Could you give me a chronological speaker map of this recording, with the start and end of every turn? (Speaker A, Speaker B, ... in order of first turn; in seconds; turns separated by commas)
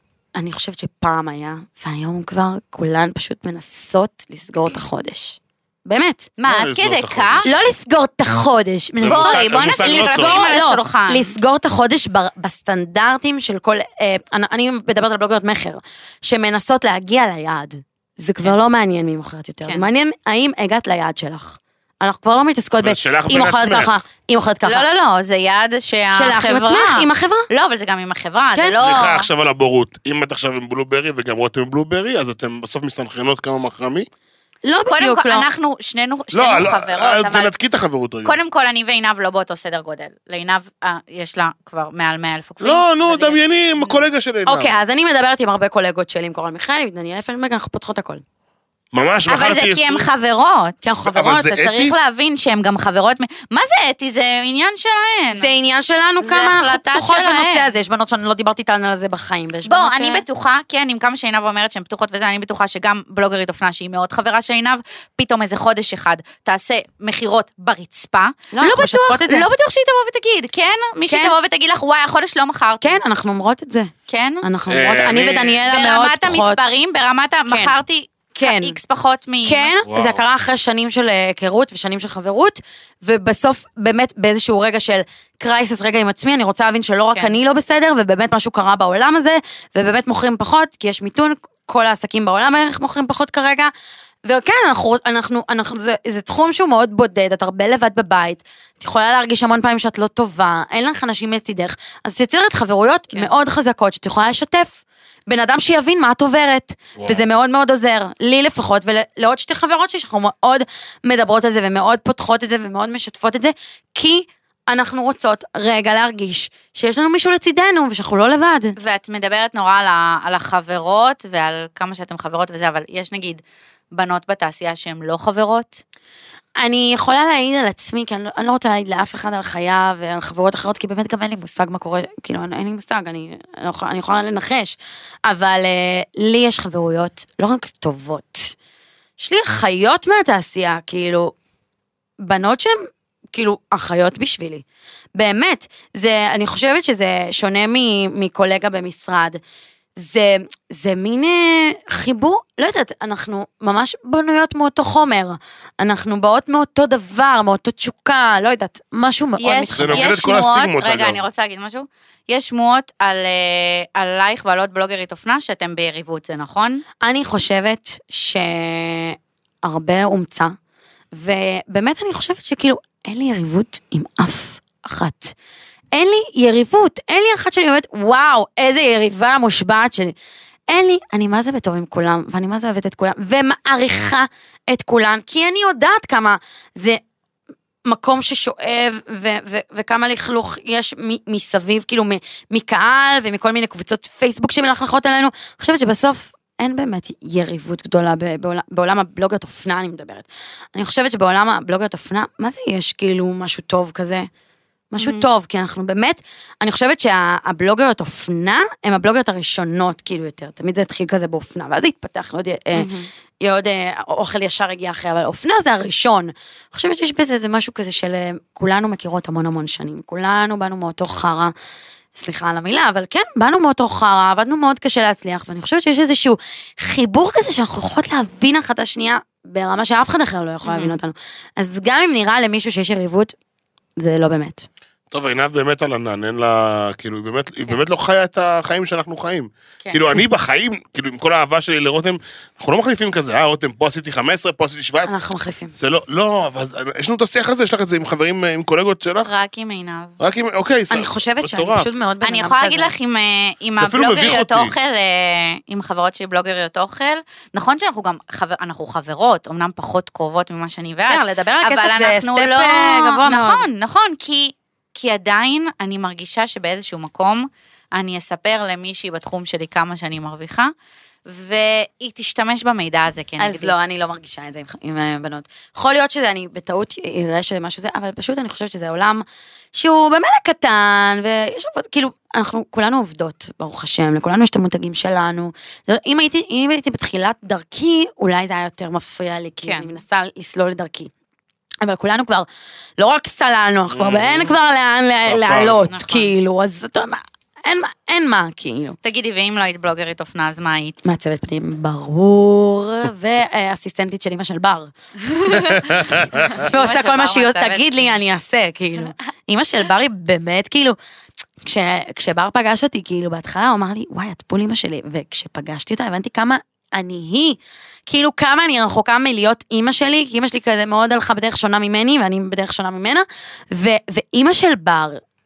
Speaker A: 0.3-6.3, Speaker B: 6.4-7.5, Speaker C: 6.5-7.6, Speaker A: 7.4-24.9, Speaker C: 9.0-10.5, Speaker B: 9.0-11.3, Speaker C: 22.8-23.9, Speaker B: 24.6-29.3, Speaker A: 26.1-27.5, Speaker A: 28.5-29.1, Speaker C: 28.7-34.1, Speaker A: 34.6-35.5, Speaker B: 34.9-37.5, Speaker C: 36.3-38.4, Speaker B: 38.2-44.0, Speaker C: 42.6-44.7, Speaker A: 44.5-48.2, Speaker C: 48.9-50.1, Speaker B: 49.3-55.5, Speaker A: 50.8-51.5, Speaker C: 51.0-51.9, Speaker A: 55.3-60.2, Speaker B: 56.2-57.7, Speaker B: 59.6-73.0, Speaker A: 68.5-69.5, Speaker A: 71.1-71.3, Speaker A: 72.8-76.6, Speaker B: 74.1-74.4, Speaker C: 74.7-75.6, Speaker B: 75.7-79.7, Speaker A: 77.5-77.7, Speaker A: 78.3-78.8, Speaker A: 79.5-93.7, Speaker C: 79.8-80.2, Speaker A: 94.2-118.8, Speaker C: 107.0-107.2, Speaker B: 118.8-123.4, Speaker B: 123.9-125.8, Speaker A: 126.6-138.5, Speaker A: 139.2-141.3, Speaker A: 142.2-144.6, Speaker A: 145.1-149.4, Speaker A: 150.0-160.2, Speaker B: 159.4-166.8, Speaker C: 159.8-161.2, Speaker A: 167.0-170.5, Speaker A: 171.1-175.3, Speaker A: 175.9-180.2, Speaker A: 180.7-187.0, Speaker A: 187.8-204.3, Speaker A: 204.9-221.5, Speaker B: 205.0-205.2, Speaker B: 212.7-213.1, Speaker A: 222.2-233.3, Speaker B: 230.6-231.0, Speaker A: 234.0-234.7, Speaker C: 235.1-245.1, Speaker A: 245.1-245.7, Speaker C: 245.7-249.3, Speaker B: 249.2-250.1, Speaker C: 250.2-251.9, Speaker A: 250.9-252.9, Speaker B: 252.2-270.7, Speaker C: 253.8-254.7, Speaker A: 261.1-263.6, Speaker B: 271.2-273.7, Speaker A: 273.4-291.1, Speaker B: 289.6-289.9, Speaker A: 291.8-299.0, Speaker C: 293.9-294.6, Speaker C: 295.2-295.8, Speaker B: 295.9-296.3, Speaker B: 299.0-301.0, Speaker A: 301.0-310.9, Speaker B: 305.5-305.9, Speaker B: 306.4-308.1, Speaker A: 311.6-325.2